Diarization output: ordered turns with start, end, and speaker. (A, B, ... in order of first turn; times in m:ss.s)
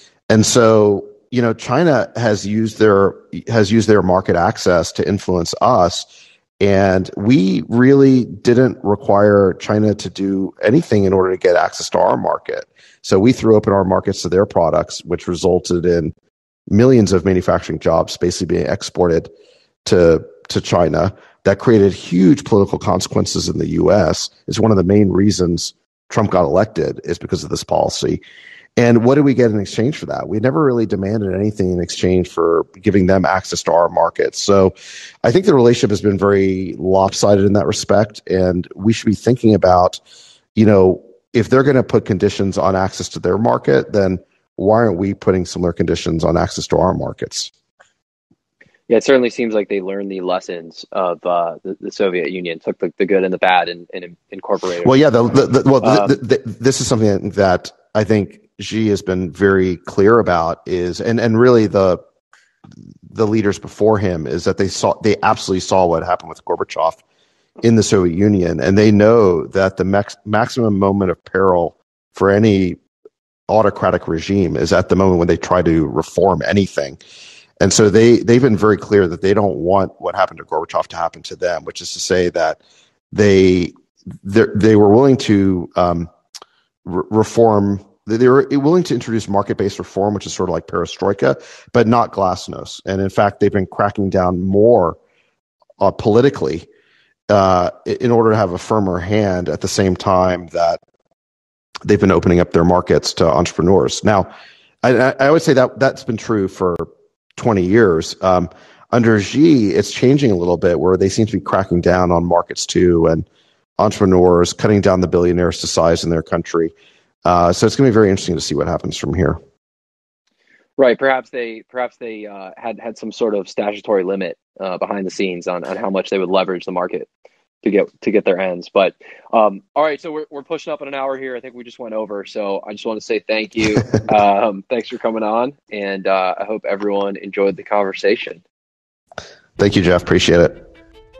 0:00.3-0:06.1 A
0:06.6-0:16.1 A
0:16.7-0:19.3 A
0:19.8-0:28.2 A
0:28.8-0:34.7 A
0:35.2-0:40.0 A
0:40.6-0:47.5 A
0:48.9-0:54.9 B
0:54.8-1:02.0 A
0:55.8-0:56.2 B
1:03.0-1:07.0 A
1:07.6-1:12.8 A
1:13.5-1:17.0 A
1:17.6-1:22.6 A
1:23.1-1:26.1 A
1:26.8-1:35.0 A
1:35.8-1:36.7 A
1:37.3-1:40.8 A
1:41.8-1:44.3 A
1:44.8-1:53.2 A
1:53.8-1:56.7 A
1:57.2-1:59.4 A
2:00.8-2:07.1 B
2:07.6-2:18.4 B
2:19.6-2:20.6 A